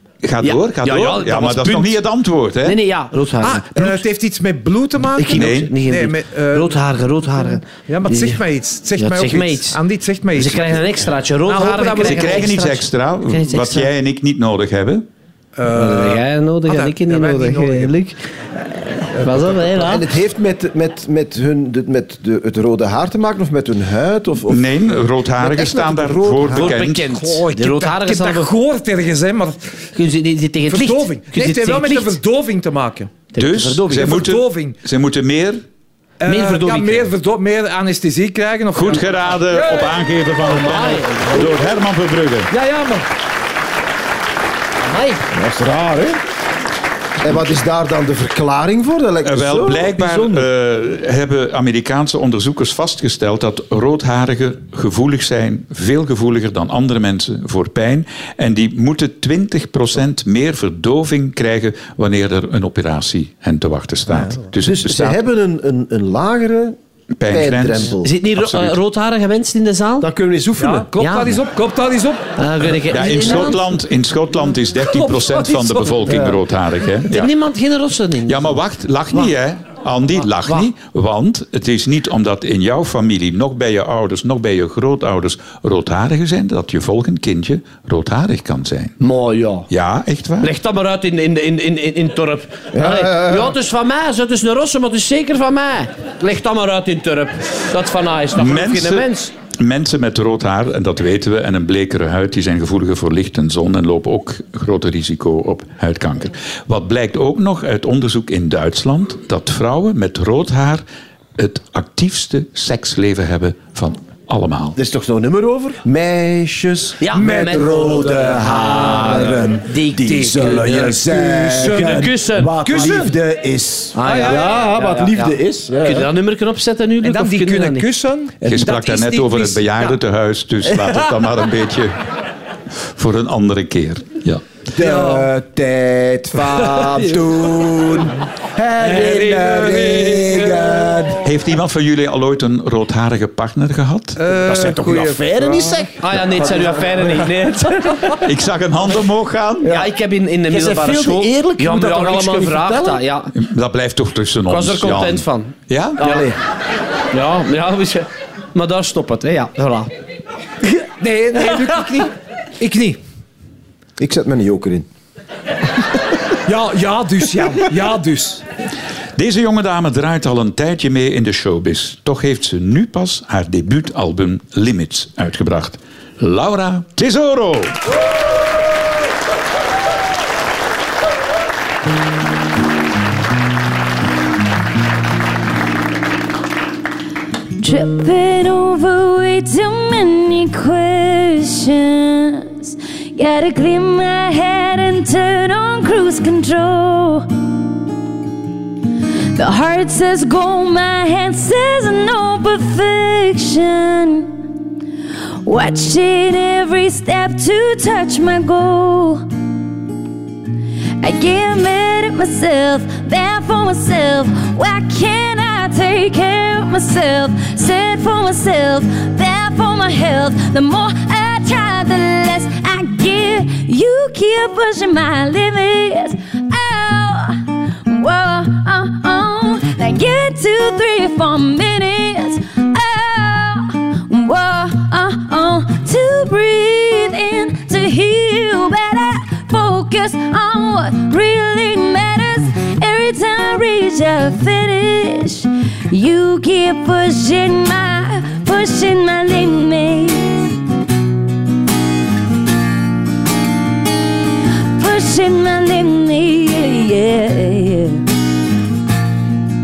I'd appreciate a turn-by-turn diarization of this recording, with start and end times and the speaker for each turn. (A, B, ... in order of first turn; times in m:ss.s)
0:00.2-0:02.8 A
0:00.4-0:02.0 B
0:02.6-0:04.0 B
0:03.4-0:06.8 C
0:05.1-0:08.4 B
0:05.3-0:05.7 A
0:07.6-0:10.9 C
0:09.0-0:09.8 B
0:10.3-0:13.9 B
0:11.4-0:12.5 C
0:12.0-0:15.0 A
0:15.6-0:17.9 C
0:15.7-0:18.1 B
0:19.2-0:19.6 C
0:19.2-0:20.0 B
0:19.8-0:26.6 D
0:24.5-0:27.1 A
0:26.5-0:28.5 B
0:27.0-0:29.7 C
0:29.9-0:32.2 B
0:30.7-0:33.1 C
0:33.3-0:34.2 B
0:33.4-0:35.6 A
0:34.0-0:34.8 C
0:36.2-0:40.0 C
0:36.2-0:37.1 B
0:38.7-0:42.5 A
0:40.4-0:41.6 B
0:42.5-0:43.0 C
0:44.8-0:45.2 B
0:45.3-0:46.2 D
0:47.2-0:50.5 D
0:49.2-1:05.2 A
1:04.5-1:08.1 D
1:07.2-1:08.8 A
1:08.0-1:10.1 B
1:10.0-1:10.9 D
1:10.6-1:12.3 C
1:11.0-1:11.3 B
1:12.4-1:13.6 B
1:12.9-1:17.3 A
1:14.8-1:16.2 C
1:17.1-1:18.6 B
1:18.2-1:29.0 A
1:29.0-1:29.7 B
1:29.7-1:30.5 A
1:30.4-1:39.3 B
1:32.7-1:33.6 D
1:38.4-1:50.8 A
1:51.4-1:54.8 A
1:54.7-2:06.1 D
1:57.0-2:00.7 B
1:57.1-2:03.1 C
2:01.6-2:02.9 B
2:03.9-2:07.9 B
2:04.0-2:04.5 C
2:07.0-2:10.0 C
2:08.4-2:12.0 A
2:12.8-2:14.4 A
2:14.7-2:21.2 D
2:14.8-2:15.3 C
2:16.5-2:17.2 C
2:18.8-2:21.0 C
2:21.2-2:24.2 A
2:24.2-2:25.9 C
2:24.3-2:27.4 D
2:26.0-2:28.2 B
2:28.2-2:29.7 A
2:29.6-2:29.9 D
2:29.6-2:33.3 B
2:30.5-2:33.0 D
2:33.3-2:36.0 A
2:34.5-2:36.3 B
2:36.0-2:36.4 D
2:37.1-2:39.9 B
2:40.7-2:43.0 C
2:44.0-2:44.9 D
2:46.4-2:48.4 C
2:49.2-2:57.8 A
3:07.6-3:17.3 E
3:19.3-3:24.3 E
3:25.4-3:29.2 E
3:31.0-4:10.5 E
4:14.7-4:18.0 E